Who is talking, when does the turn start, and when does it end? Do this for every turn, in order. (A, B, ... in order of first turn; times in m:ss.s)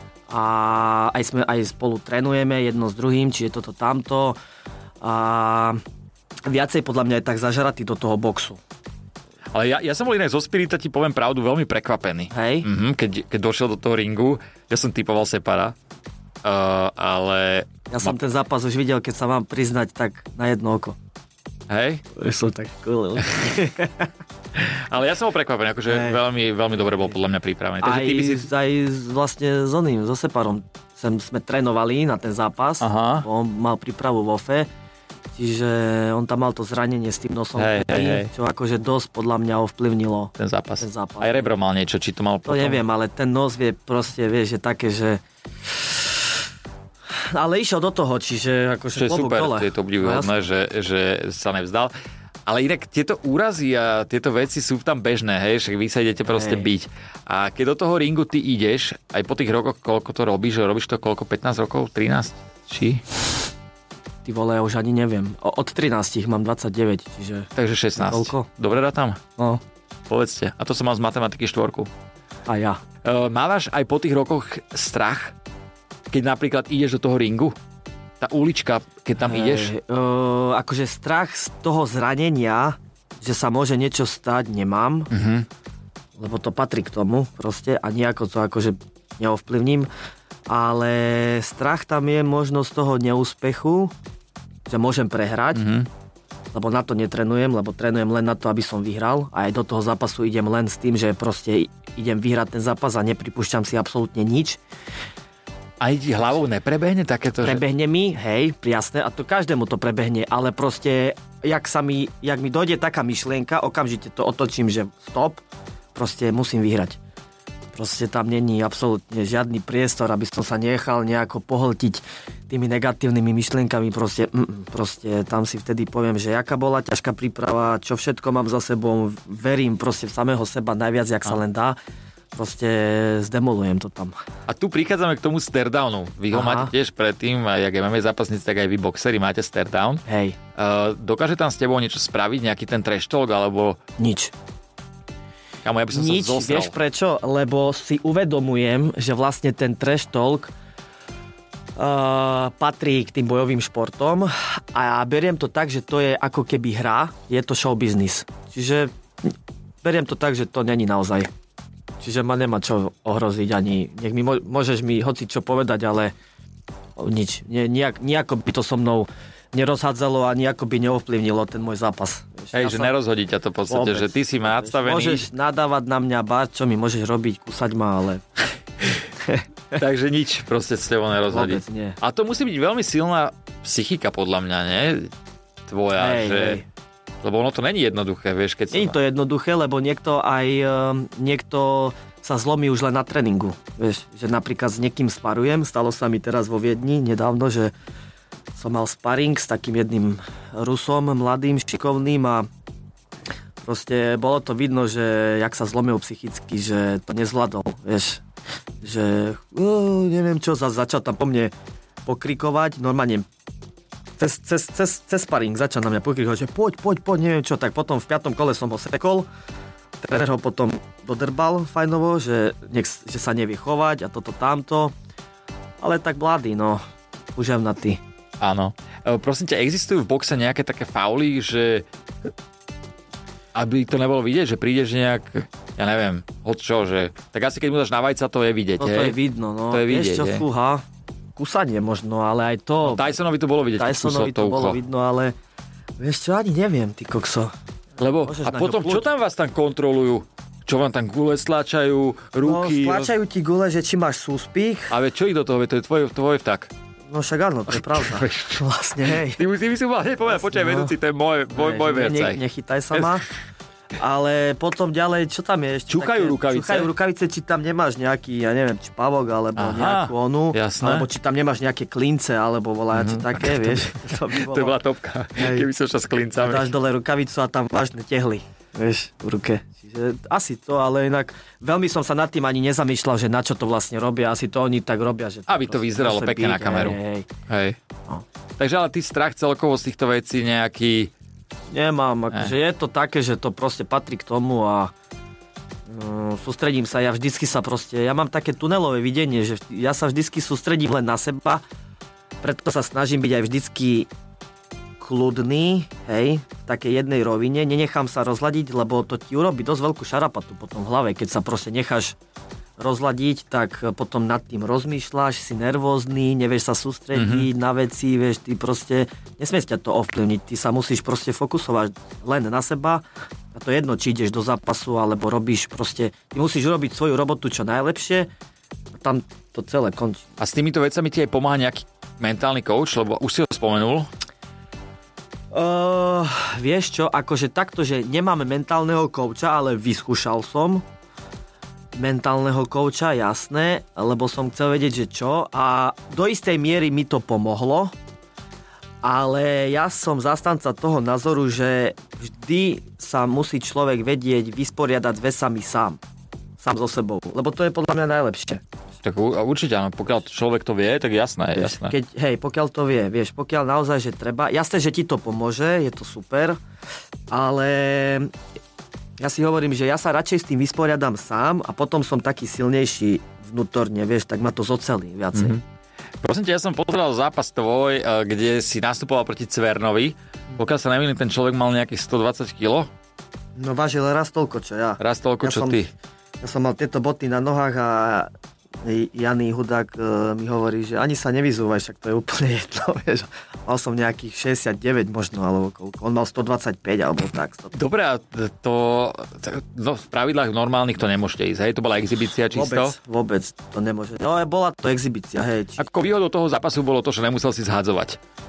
0:00.3-0:04.4 A
0:05.0-0:05.8 A
0:06.4-0:08.6 A
0:09.5-0:15.7 B
0:12.3-0:12.7 A
0:16.4-0:18.2 B
0:17.9-0:21.0 A
0:21.7-0:22.0 B
0:22.1-0:24.1 A
0:24.7-0:28.5 B
0:25.9-0:26.2 A
0:27.8-0:34.7 A
0:32.8-0:33.3 B
0:35.3-0:41.5 A
0:37.6-0:38.3 B
0:40.4-0:42.8 B
0:42.4-0:46.2 A
0:47.3-0:50.3 A
0:48.9-0:51.9 B
0:52.4-1:03.0 B
0:56.3-0:56.7 A
1:04.2-1:08.5 A
1:07.5-1:09.2 B
1:10.1-1:11.9 B
1:12.5-1:12.8 A
1:13.0-1:15.3 B
1:16.1-1:17.5 B
1:18.2-1:19.7 B
1:19.2-1:25.1 A
1:25.1-1:25.4 B
1:26.2-1:29.9 A
1:30.5-1:33.9 A
1:34.7-1:35.6 A
1:35.5-1:35.9 B
1:36.5-1:44.6 A
1:45.8-1:47.6 B
1:47.4-1:55.4 A
1:55.9-1:57.0 A
1:57.7-2:11.8 A
2:12.3-2:14.1 A
2:14.5-2:20.0 B
2:16.3-2:16.7 A
2:20.0-2:20.4 A
2:20.6-2:23.8 B
2:24.0-2:24.3 A
2:25.6-2:26.7 B
2:25.9-2:30.5 A
2:31.8-2:41.3 A
2:42.0-2:46.1 A
2:47.0-2:52.9 A
2:52.5-2:55.3 B
2:53.7-2:58.2 A
2:59.2-2:59.8 A
2:59.7-3:05.1 B
3:01.3-3:02.0 A
3:05.7-3:06.6 B
3:06.0-3:06.6 A
3:07.2-3:09.0 B
3:08.7-3:17.7 A
3:18.5-3:22.5 A
3:23.6-3:28.2 A
3:28.8-3:31.5 A
3:32.0-3:33.3 A
3:34.2-3:39.3 A
3:40.0-3:44.9 A
3:45.8-3:46.8 A
3:47.3-3:48.0 A
3:48.4-3:51.9 B
3:53.5-3:59.2 B
3:58.8-4:00.8 A
3:59.7-4:00.4 B
4:01.4-4:03.1 A
4:02.8-4:04.8 B
4:03.8-4:05.3 A
4:06.0-4:07.5 A
4:08.0-4:13.1 B
4:08.2-4:09.1 A
4:12.4-4:14.9 A
4:14.9-4:16.7 B
4:17.1-4:19.4 A
4:17.7-4:18.6 B
4:19.2-4:22.4 B
4:20.2-4:20.9 A
4:21.5-4:23.2 A
4:22.9-4:23.2 B
4:24.0-4:34.8 A
4:25.9-4:26.9 B
4:29.6-4:31.1 B
4:32.9-4:36.7 B
4:35.4-4:35.7 A
4:36.4-4:47.3 A
4:45.5-4:47.8 B
4:48.6-4:51.1 B
4:51.7-4:54.9 A
4:55.9-5:01.6 A
5:02.4-5:04.1 A
5:05.0-5:12.2 A
5:12.8-5:28.3 A
5:17.1-5:17.5 B
5:29.0-5:30.2 A
5:30.4-5:34.1 B
5:35.5-5:40.8 A
5:41.9-5:47.9 A
5:49.0-5:56.0 A
5:56.6-5:58.6 A
5:59.0-6:01.9 B
6:01.5-6:06.6 A
6:07.3-6:08.3 A
6:09.2-6:15.6 A
6:15.3-6:15.6 B
6:16.2-6:22.9 B
6:23.6-6:25.8 A
6:25.0-6:25.9 B
6:26.4-6:28.3 A
6:28.8-6:37.7 A
6:37.7-6:43.0 B
6:42.5-6:45.8 A
6:45.8-6:48.2 B